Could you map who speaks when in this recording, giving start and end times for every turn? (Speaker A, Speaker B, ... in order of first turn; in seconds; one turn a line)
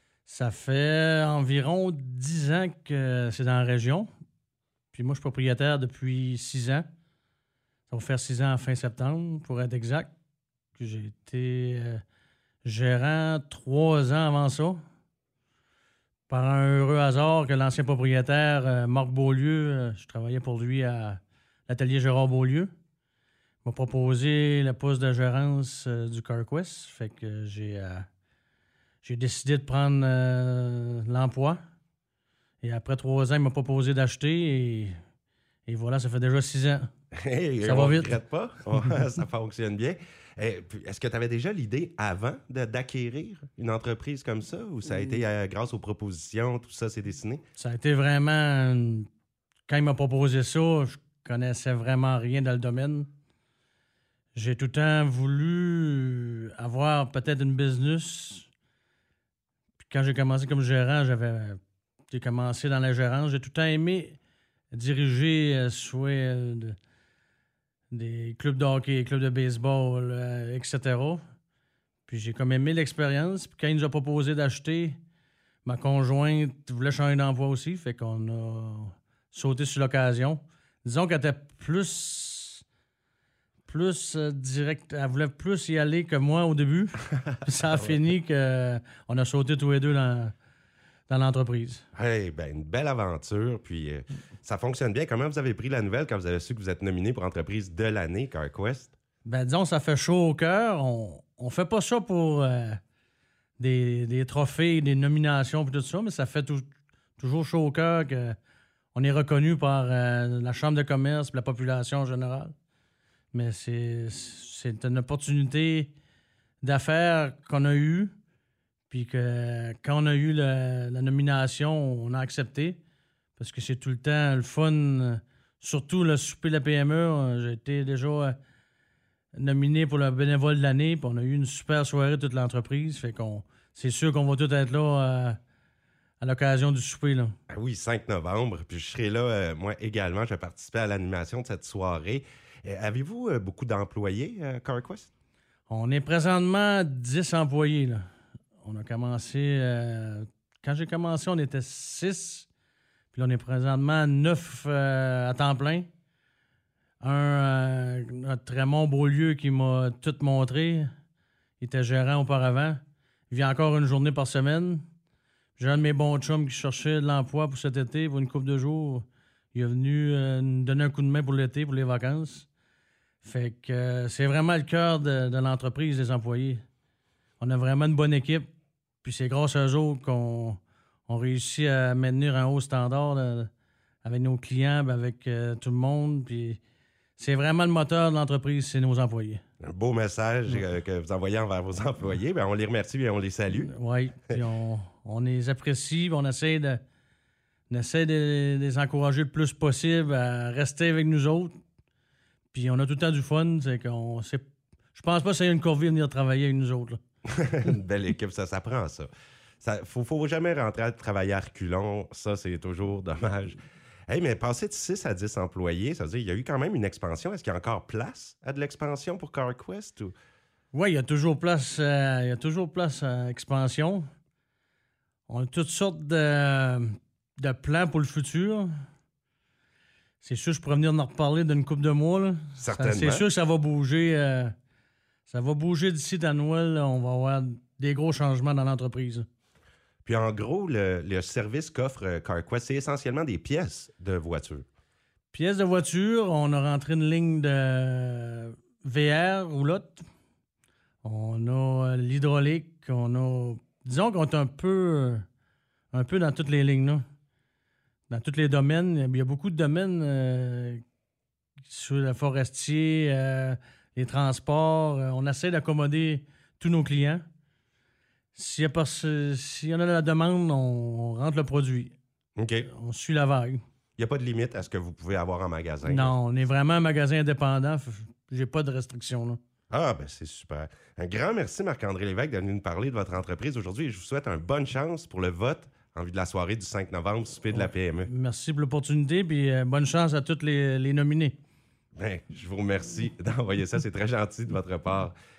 Speaker A: 0.3-4.1
Speaker A: 4.9-6.8
Speaker A: 7.9-10.1
Speaker A: 10.8-12.0
Speaker A: 12.6-14.8
Speaker A: 16.3-22.7
Speaker A: 23.6-28.1
Speaker A: 29.0-31.6
Speaker A: 32.6-35.0
Speaker A: 35.7-36.9
Speaker B: 37.1-47.4
Speaker A: 37.6-38.2
Speaker A: 47.6-49.1
Speaker A: 49.7-53.1
Speaker A: 54.3-58.5
Speaker A: 59.8-61.6
Speaker A: 62.1-64.2
Speaker A: 64.7-66.8
Speaker A: 67.9-71.2
Speaker A: 72.1-75.0
Speaker A: 75.6-82.6
Speaker A: 83.7-90.3
Speaker A: 91.1-91.9
Speaker B: 91.9-98.9
Speaker A: 99.2-102.8
Speaker A: 103.6-108.4
Speaker A: 108.9-112.5
Speaker A: 113.3-115.9
Speaker A: 116.6-118.1
Speaker A: 118.9-122.8
Speaker A: 123.4-128.4
Speaker A: 129.3-135.4
Speaker A: 136.2-137.3
Speaker B: 137.5-145.1
Speaker A: 145.7-148.1
Speaker A: 148.6-152.5
Speaker A: 153.1-155.9
Speaker A: 157.0-160.9
Speaker A: 161.6-164.8
Speaker A: 165.6-172.5
Speaker A: 173.2-176.6
Speaker A: 177.4-178.5
Speaker A: 179.0-183.5
Speaker A: 184.0-186.6
Speaker A: 187.2-189.4
Speaker B: 189.6-193.7
Speaker A: 193.5-196.8
Speaker A: 197.7-201.5
Speaker A: 202.5-207.0
Speaker B: 207.3-209.1
Speaker B: 209.6-220.1
Speaker A: 220.7-224.1
Speaker A: 225.3-228.7
Speaker A: 230.2-234.5
Speaker B: 232.6-233.2
Speaker A: 235.3-239.2
Speaker B: 240.1-244.7
Speaker A: 245.3-250.1
Speaker A: 251.0-255.2
Speaker A: 255.9-257.0
Speaker A: 258.1-260.8
Speaker A: 261.7-267.2
Speaker A: 268.4-271.9
Speaker B: 272.4-272.7
Speaker A: 272.7-273.6
Speaker B: 274.0-276.1
Speaker A: 275.8-279.4
Speaker B: 279.7-288.1
Speaker A: 287.5-291.4
Speaker B: 292.0-295.1